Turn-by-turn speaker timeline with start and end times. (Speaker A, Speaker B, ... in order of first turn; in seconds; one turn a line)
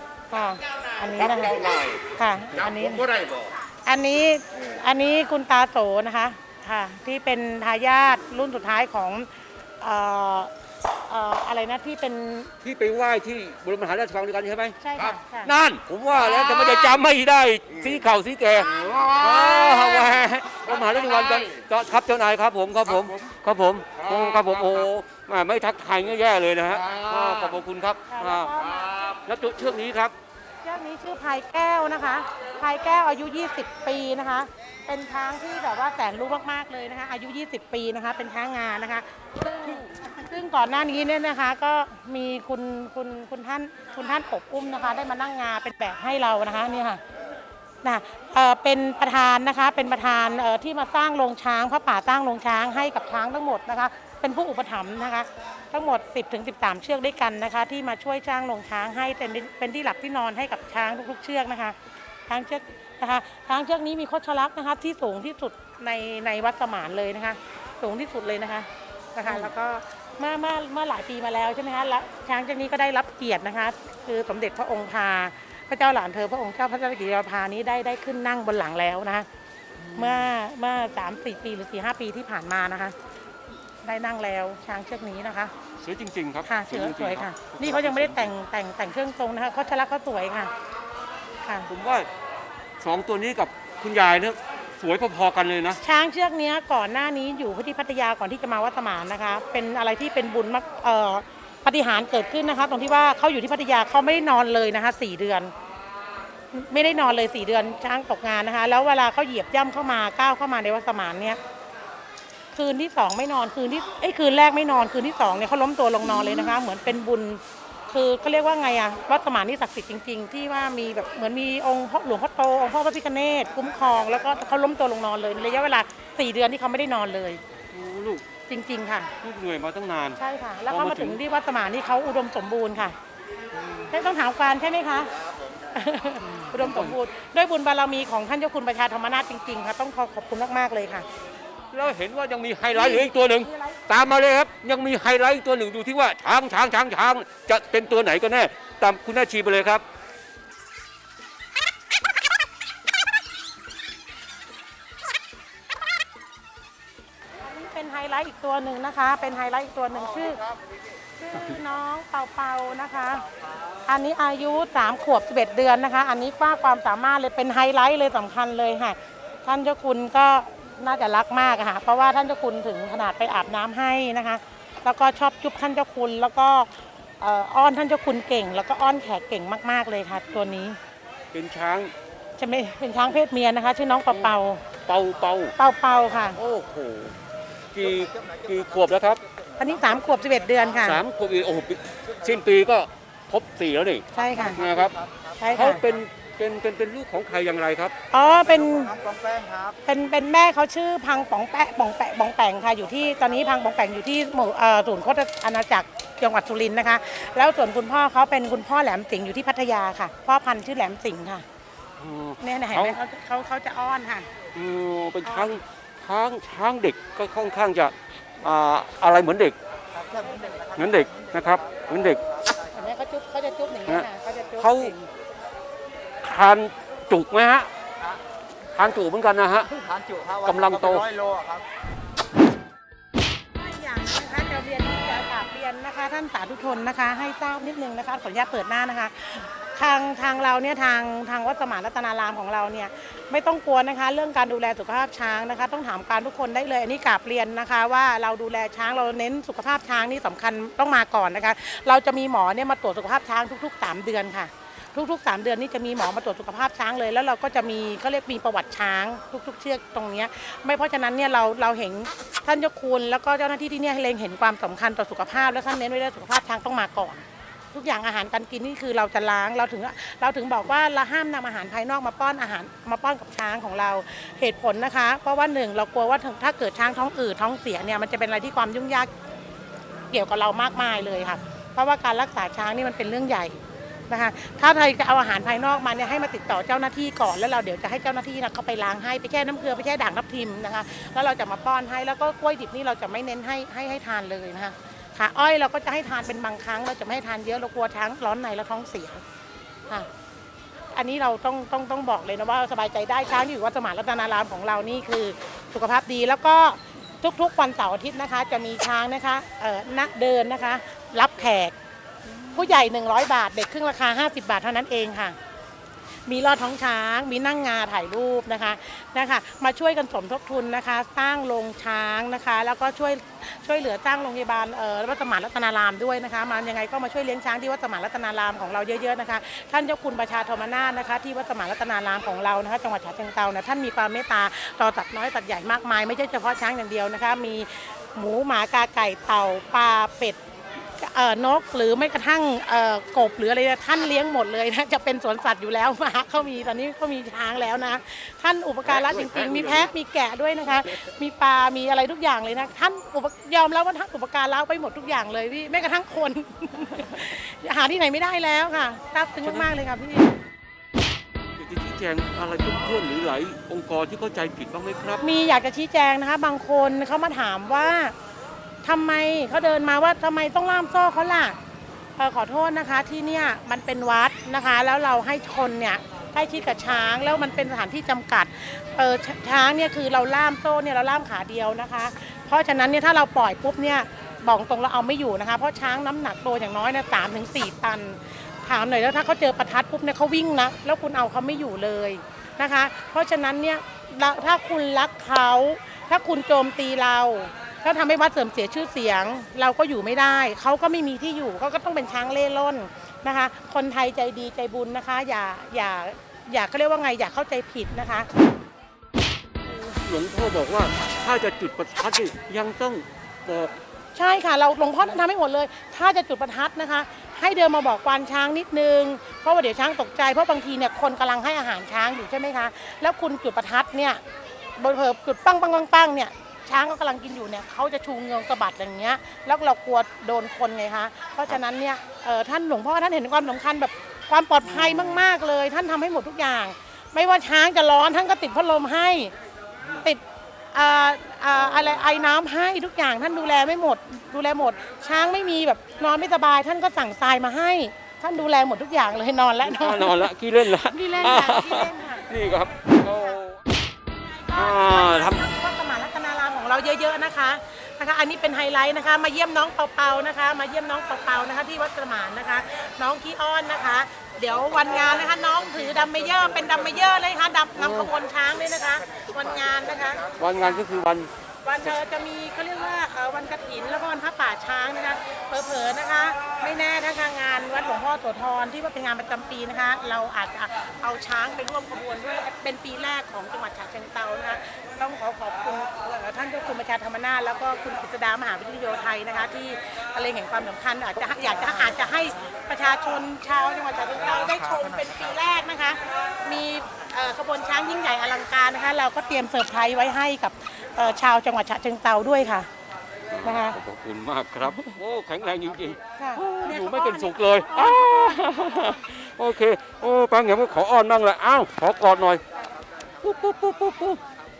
Speaker A: 0.3-3.1
Speaker B: 1.7-2.0
Speaker B: 3.1-3.5
Speaker A: 3.9-9.3
Speaker A: 9.8-10.5
Speaker A: 11.1-12.5
Speaker C: 12.6-30.1
Speaker A: 14.8-15.5
Speaker A: 28.1-28.9
Speaker A: 30.6-47.0
Speaker A: 47.8-61.8
Speaker A: 62.3-79.3
Speaker C: 69.2-69.5
Speaker C: 79.8-80.3
Speaker A: 80.0-83.0
Speaker A: 83.8-85.5
Speaker C: 85.8-88.3
Speaker A: 86.5-90.5
Speaker A: 91.4-91.7
Speaker C: 91.7-92.1
Speaker C: 92.8-95.8
Speaker A: 95.8-105.5
Speaker A: 106.5-111.4
Speaker A: 112.5-127.4
Speaker C: 127.7-128.2
Speaker A: 128.5-129.1
Speaker C: 129.2-130.2
Speaker A: 130.2-133.0
Speaker C: 130.7-131.2
Speaker A: 133.9-135.1
Speaker A: 135.7-141.1
Speaker C: 136.2-137.0
Speaker C: 141.7-149.8
Speaker A: 142.7-144.1
Speaker A: 157.4-160.4
Speaker A: 161.2-163.3
Speaker A: 163.9-180.8
Speaker C: 181.3-181.9
Speaker A: 182.4-184.6
Speaker C: 184.9-185.5
Speaker A: 185.6-186.4
Speaker C: 186.3-187.2
Speaker C: 187.7-189.2
Speaker B: 188.1-188.6
Speaker A: 189.6-191.0
Speaker C: 190.8-194.9
Speaker A: 194.1-194.6
Speaker B: 194.3-195.3
Speaker A: 195.4-195.8
Speaker C: 195.5-197.9
Speaker A: 198.1-198.9
Speaker B: 198.6-199.8
Speaker A: 199.8-211.4
Speaker C: 212.0-212.9
Speaker A: 212.4-214.3
Speaker C: 214.6-219.6
Speaker A: 215.2-215.6
Speaker B: 219.9-221.9
Speaker C: 220.7-222.2
Speaker A: 222.7-225.0
Speaker C: 224.6-225.0
Speaker C: 226.2-227.7
Speaker C: 228.8-229.9
Speaker B: 229.8-231.6
Speaker C: 230.4-231.1
Speaker A: 233.6-279.1
Speaker A: 280.1-299.2
Speaker A: 300.9-311.8
Speaker C: 312.3-312.7
Speaker A: 312.5-315.4
Speaker A: 316.3-360.3
Speaker C: 348.9-349.9
Speaker C: 359.4-359.7
Speaker C: 361.6-365.2
Speaker A: 365.2-368.1
Speaker A: 368.8-371.6
Speaker A: 372.2-408.3
Speaker C: 409.7-413.8
Speaker A: 414.1-424.2
Speaker A: 424.8-439.3
Speaker C: 434.6-435.2
Speaker A: 440.7-452.3
Speaker C: 449.6-453.6
Speaker A: 454.3-470.9
Speaker C: 454.5-455.4
Speaker C: 467.8-468.1
Speaker C: 470.4-471.3
Speaker A: 471.6-502.7
Speaker C: 503.3-512.4
Speaker A: 503.4-503.8
Speaker A: 504.6-505.0
Speaker A: 506.2-509.1
Speaker C: 513.2-514.2